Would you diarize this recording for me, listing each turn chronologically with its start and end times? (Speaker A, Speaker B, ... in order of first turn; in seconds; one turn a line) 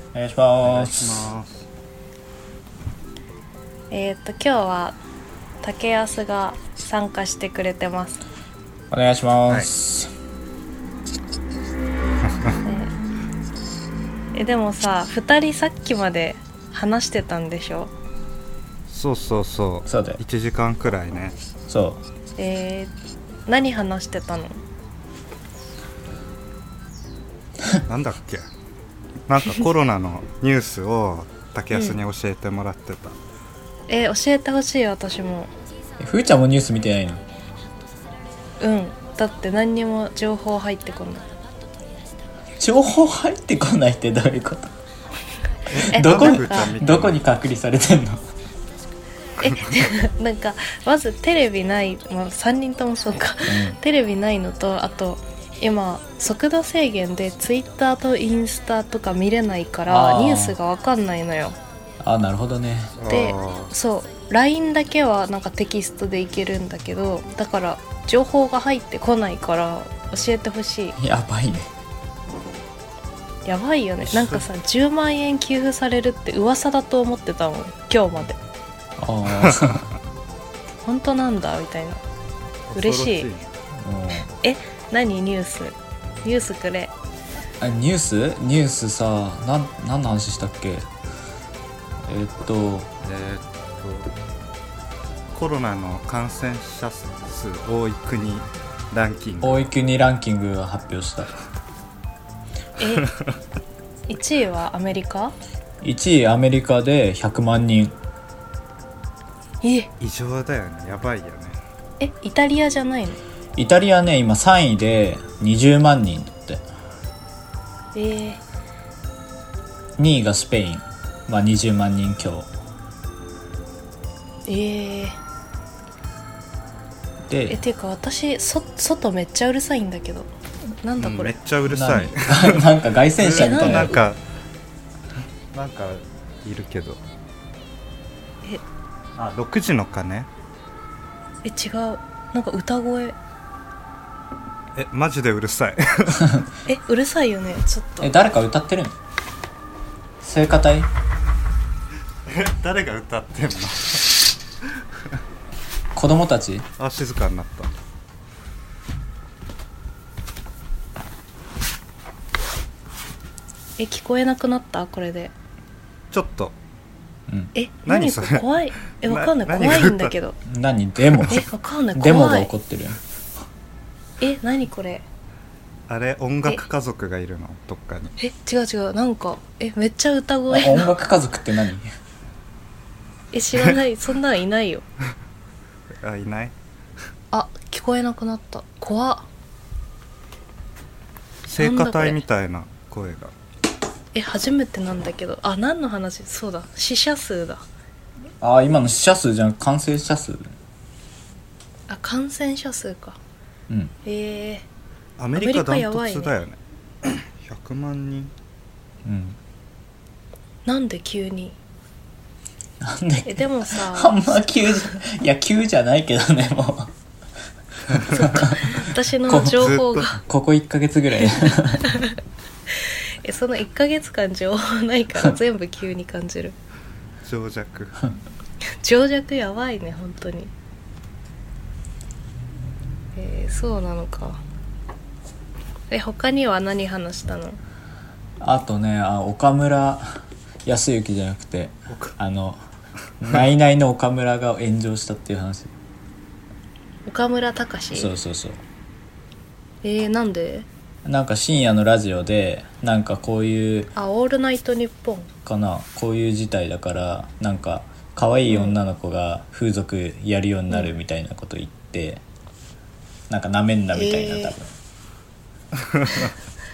Speaker A: 0.1-1.3
Speaker B: 0.6-1.7
Speaker C: 3.9-5.0
Speaker C: 5.6-8.2
Speaker A: 8.9-10.1
Speaker C: 12.7-12.9
Speaker C: 14.3-17.9
Speaker B: 18.9-21.4
Speaker A: 19.9-20.2
Speaker A: 21.7-22.0
Speaker C: 22.4-22.9
Speaker C: 23.5-24.6
Speaker B: 27.9-28.4
Speaker B: 29.3-33.2
Speaker C: 31.7-32.0
Speaker C: 33.9-35.5
Speaker A: 36.0-37.2
Speaker C: 38.6-41.3
Speaker A: 42.6-44.7
Speaker B: 45.7-47.2
Speaker A: 45.8-48.2
Speaker C: 45.9-46.7
Speaker C: 49.4-61.6
Speaker A: 53.5-53.8
Speaker A: 59.9-60.6
Speaker A: 62.0-63.0
Speaker B: 63.0-63.7
Speaker C: 63.1-71.0
Speaker A: 71.0-71.7
Speaker C: 73.5-78.4
Speaker B: 74.1-74.4
Speaker A: 79.0-79.9
Speaker B: 79.4-79.8
Speaker C: 80.8-82.0
Speaker B: 82.7-83.5
Speaker C: 82.7-83.3
Speaker A: 83.7-84.3
Speaker C: 84.4-86.9
Speaker A: 87.6-90.9
Speaker A: 92.0-92.9
Speaker B: 93.0-94.1
Speaker B: 95.3-99.7
Speaker A: 99.4-101.3
Speaker C: 102.8-103.1
Speaker C: 104.1-105.3
Speaker A: 105.8-108.0
Speaker C: 109.6-109.9
Speaker B: 110.0-111.6
Speaker C: 112.0-113.2
Speaker A: 113.6-116.6
Speaker C: 118.0-118.4
Speaker A: 120.0-122.5
Speaker C: 124.5-125.2
Speaker A: 127.3-127.6
Speaker C: 127.5-130.3
Speaker C: 130.8-131.3
Speaker B: 131.0-134.2
Speaker A: 131.7-134.0
Speaker C: 133.4-133.9
Speaker B: 135.5-137.0
Speaker B: 139.2-140.3
Speaker C: 141.4-143.2
Speaker B: 144.8-146.4
Speaker C: 146.7-148.1
Speaker A: 148.0-148.9
Speaker A: 150.2-150.9
Speaker B: 152.3-154.1
Speaker A: 155.9-156.7
Speaker B: 156.8-157.7
Speaker C: 163.8-165.3
Speaker B: 166.1-166.6
Speaker C: 167.6-170.4
Speaker B: 167.9-170.1
Speaker A: 170.4-173.0
Speaker C: 171.3-172.5
Speaker C: 174.2-175.1
Speaker B: 175.9-178.1
Speaker C: 178.2-180.9
Speaker A: 180.5-181.9
Speaker C: 183.3-184.8
Speaker B: 186.0-186.5
Speaker C: 187.3-189.3
Speaker B: 191.5-193.3
Speaker C: 191.6-192.2
Speaker C: 194.1-197.6
Speaker A: 198.4-200.5
Speaker C: 201.9-203.2
Speaker C: 204.1-204.7
Speaker B: 205.2-208.3
Speaker C: 205.4-206.3
Speaker A: 209.1-209.4
Speaker C: 210.7-211.6
Speaker A: 212.8-216.9
Speaker C: 213.2-214.4
Speaker A: 217.9-221.9
Speaker C: 218.5-220.2
Speaker B: 219.5-220.1
Speaker C: 221.8-222.2
Speaker C: 222.9-226.6
Speaker B: 227.2-228.1
Speaker C: 228.8-230.5
Speaker C: 233.2-234.4
Speaker C: 235.9-237.6
Speaker A: 238.4-242.6
Speaker B: 241.9-242.2
Speaker A: 243.2-245.7
Speaker C: 247.1-248.1
Speaker A: 247.9-248.6
Speaker C: 249.8-250.7
Speaker A: 251.1-253.9
Speaker C: 253.9-255.3
Speaker A: 255.4-262.2
Speaker C: 258.5-258.8
Speaker A: 263.3-264.7
Speaker C: 263.9-264.6